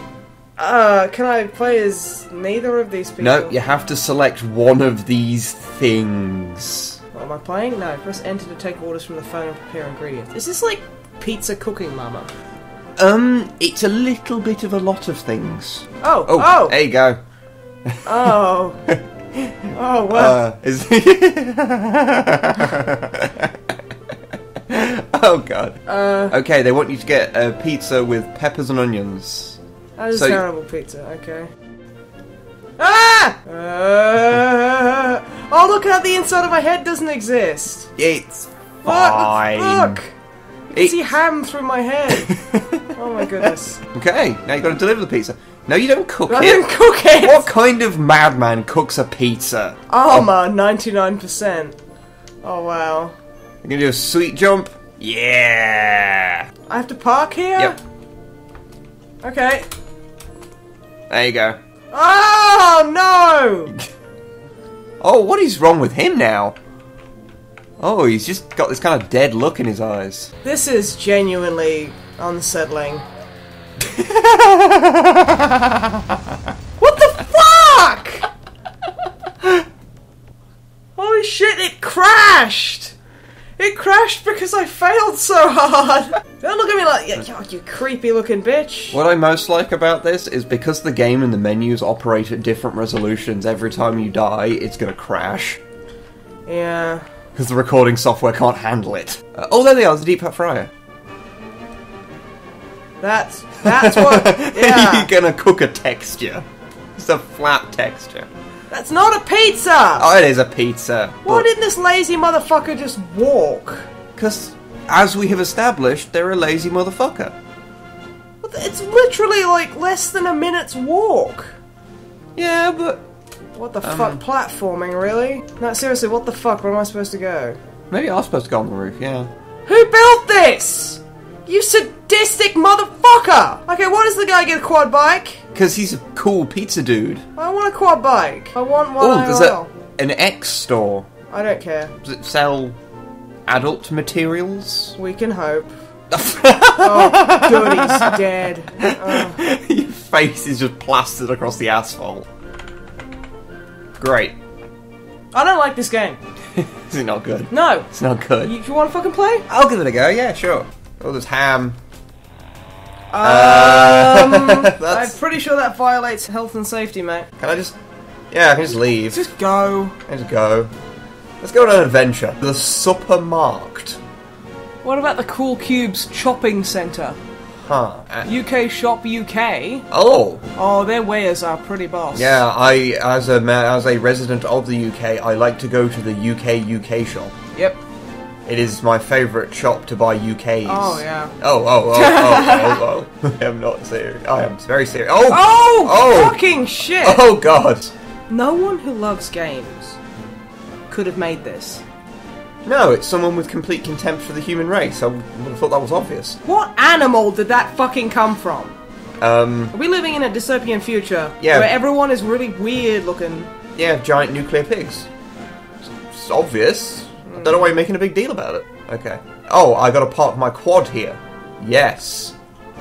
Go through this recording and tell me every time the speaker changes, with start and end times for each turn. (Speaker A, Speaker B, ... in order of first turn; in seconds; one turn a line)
Speaker A: 0.6-3.6
Speaker B: 3.2-7.0
Speaker A: 7.1-12.3
Speaker B: 13.0-17.2
Speaker A: 16.0-16.8
Speaker B: 17.9-18.4
Speaker A: 18.1-18.8
Speaker B: 18.9-23.8
Speaker A: 19.7-20.4
Speaker B: 24.7-29.6
Speaker A: 25.9-26.4
Speaker A: 30.0-31.5
Speaker B: 30.1-30.4
Speaker A: 32.8-37.9
Speaker B: 38.0-40.0
Speaker A: 38.8-40.1
Speaker A: 40.7-42.3
Speaker B: 40.8-41.0
Speaker B: 42.1-42.9
Speaker A: 42.9-43.8
Speaker B: 43.4-46.6
Speaker A: 46.3-47.5
Speaker B: 47.2-50.3
Speaker A: 49.9-51.8
Speaker A: 52.4-53.1
Speaker B: 53.6-56.5
Speaker A: 56.7-57.8
Speaker A: 59.2-59.7
Speaker B: 61.1-61.6
Speaker A: 61.9-63.7
Speaker B: 65.0-66.6
Speaker B: 67.8-70.3
Speaker A: 70.4-73.0
Speaker B: 73.8-76.0
Speaker A: 76.8-78.3
Speaker A: 81.0-83.0
Speaker A: 83.6-89.0
Speaker B: 88.9-95.6
Speaker A: 96.5-97.0
Speaker B: 97.3-100.7
Speaker A: 103.0-105.1
Speaker B: 103.6-106.5
Speaker B: 107.0-108.3
Speaker A: 108.7-110.1
Speaker B: 110.0-111.5
Speaker A: 111.2-113.9
Speaker B: 114.2-117.3
Speaker A: 118.4-121.6
Speaker B: 122.4-123.0
Speaker A: 123.5-127.6
Speaker B: 123.8-124.2
Speaker B: 127.9-129.3
Speaker A: 129.7-135.4
Speaker B: 135.6-137.2
Speaker A: 137.3-139.7
Speaker B: 139.0-141.1
Speaker A: 141.3-141.9
Speaker B: 142.0-142.8
Speaker B: 143.5-145.0
Speaker A: 145.0-145.7
Speaker B: 146.1-148.2
Speaker A: 146.8-149.4
Speaker B: 148.8-152.3
Speaker B: 154.0-154.4
Speaker A: 155.3-156.2
Speaker B: 156.6-158.5
Speaker A: 157.5-157.9
Speaker A: 158.4-159.5
Speaker B: 159.5-161.8
Speaker A: 163.1-167.3
Speaker B: 163.2-165.1
Speaker B: 167.4-167.8
Speaker B: 168.3-169.2
Speaker A: 169.1-170.0
Speaker B: 170.1-170.7
Speaker B: 171.4-174.0
Speaker A: 174.8-177.2
Speaker B: 177.6-178.3
Speaker A: 178.2-179.8
Speaker B: 179.9-180.4
Speaker A: 180.6-182.4
Speaker B: 182.1-187.3
Speaker B: 188.5-196.4
Speaker A: 190.7-191.3
Speaker A: 191.9-192.8
Speaker A: 195.3-197.3
Speaker B: 197.0-197.9
Speaker A: 198.3-200.0
Speaker A: 200.9-201.8
Speaker B: 202.7-206.4
Speaker A: 206.4-208.8
Speaker B: 209.2-209.7
Speaker A: 209.7-213.5
Speaker B: 211.4-211.7
Speaker B: 213.8-215.1
Speaker B: 215.8-222.4
Speaker A: 217.3-217.7